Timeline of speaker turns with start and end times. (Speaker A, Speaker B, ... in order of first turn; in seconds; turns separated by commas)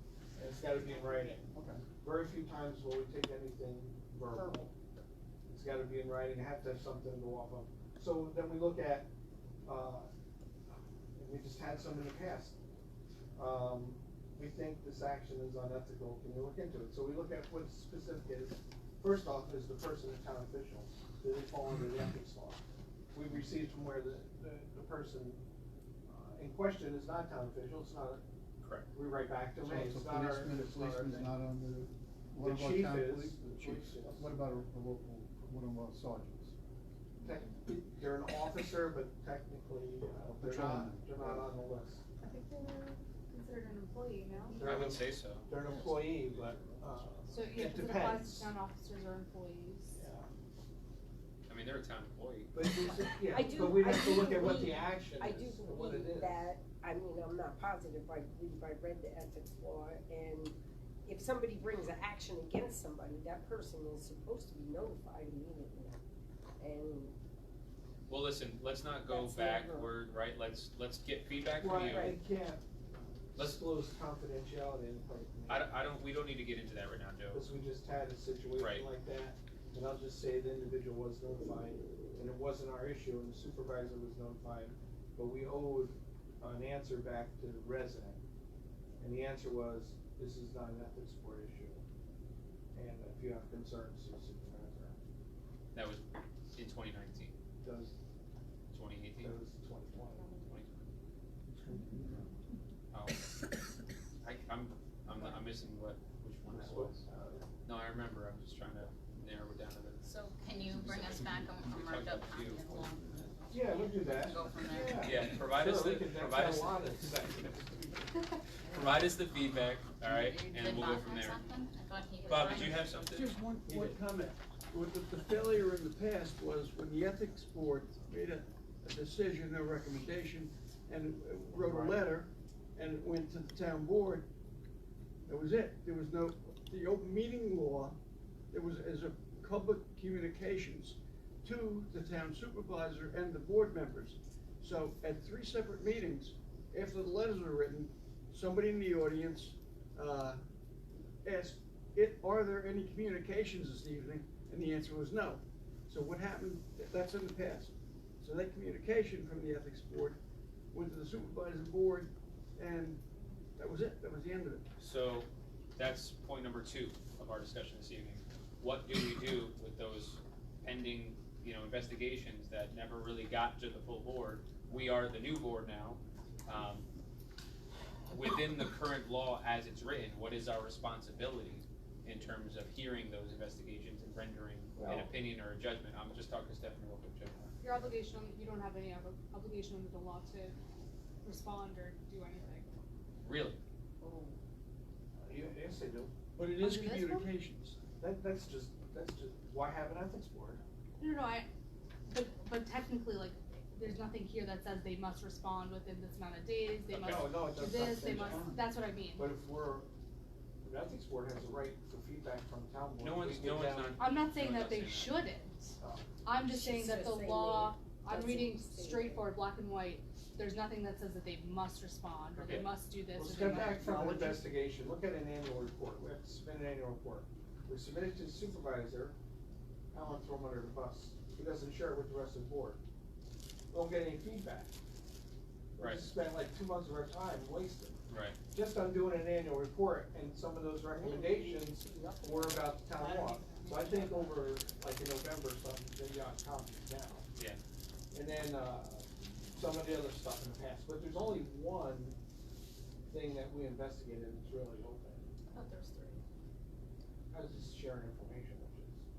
Speaker A: 0.3-1.4, Speaker B: 1.5-1.8, Speaker A: 2.0-4.7, Speaker A: 5.5-9.1, Speaker A: 9.6-10.1, Speaker A: 11.2-12.6, Speaker A: 13.3-22.6, Speaker A: 23.1-25.4, Speaker A: 26.1-28.2, Speaker C: 28.6-28.9, Speaker A: 28.9-31.3, Speaker B: 29.6-36.5, Speaker A: 32.4-34.4, Speaker A: 37.2-42.0, Speaker B: 40.3-41.5, Speaker D: 42.2-44.6, Speaker A: 44.5-48.5, Speaker C: 44.6-45.5, Speaker B: 45.8-46.3, Speaker D: 47.3-50.0, Speaker A: 50.0-50.3, Speaker C: 51.5-52.7, Speaker A: 52.5-56.5, Speaker E: 53.2-66.0, Speaker E: 66.6-67.1, Speaker C: 68.1-72.2, Speaker E: 69.1-69.9, Speaker A: 71.6-72.6, Speaker E: 71.9-72.2, Speaker C: 73.3-73.6, Speaker A: 73.3-75.7, Speaker C: 75.5-77.4, Speaker A: 77.3-88.2, Speaker C: 78.5-78.9, Speaker A: 89.0-91.8, Speaker A: 92.7-95.0, Speaker C: 95.7-97.3, Speaker A: 97.6-97.9, Speaker C: 98.7-99.4, Speaker A: 99.2-100.4, Speaker C: 100.4-100.8, Speaker B: 101.7-102.2, Speaker A: 101.9-102.2, Speaker C: 102.9-103.2, Speaker C: 104.2-107.0, Speaker A: 106.5-107.4, Speaker C: 107.6-110.0, Speaker F: 110.0-115.1, Speaker C: 111.7-113.1, Speaker A: 113.5-118.1, Speaker C: 115.0-117.2, Speaker C: 118.7-121.4, Speaker F: 120.1-122.8, Speaker C: 122.2-123.3, Speaker G: 122.5-134.2, Speaker A: 123.7-124.0, Speaker A: 131.6-131.9, Speaker G: 135.3-138.0, Speaker G: 138.5-150.4, Speaker G: 151.2-160.2, Speaker G: 160.7-163.0, Speaker G: 163.6-164.6, Speaker C: 164.8-176.9, Speaker C: 178.1-187.4, Speaker D: 187.6-190.6, Speaker D: 191.2-192.7, Speaker C: 193.2-193.6, Speaker E: 194.0-194.3, Speaker A: 195.2-196.1, Speaker G: 196.3-197.8, Speaker D: 196.6-197.3, Speaker A: 198.0-200.6, Speaker D: 201.0-201.5, Speaker D: 202.1-209.3, Speaker C: 206.9-207.2, Speaker A: 207.1-208.6, Speaker A: 209.1-209.8, Speaker A: 210.6-213.9, Speaker C: 213.0-215.2, Speaker D: 214.0-215.7, Speaker A: 215.8-216.1, Speaker D: 216.2-224.4, Speaker E: 216.5-219.2, Speaker C: 222.3-222.7, Speaker A: 223.1-229.1, Speaker A: 229.9-232.8, Speaker A: 233.7-234.7, Speaker A: 235.8-247.2, Speaker C: 235.8-236.0, Speaker C: 238.1-238.4, Speaker E: 240.9-242.9, Speaker A: 248.1-252.2, Speaker A: 253.1-255.3, Speaker F: 255.5-256.2, Speaker A: 257.3-259.0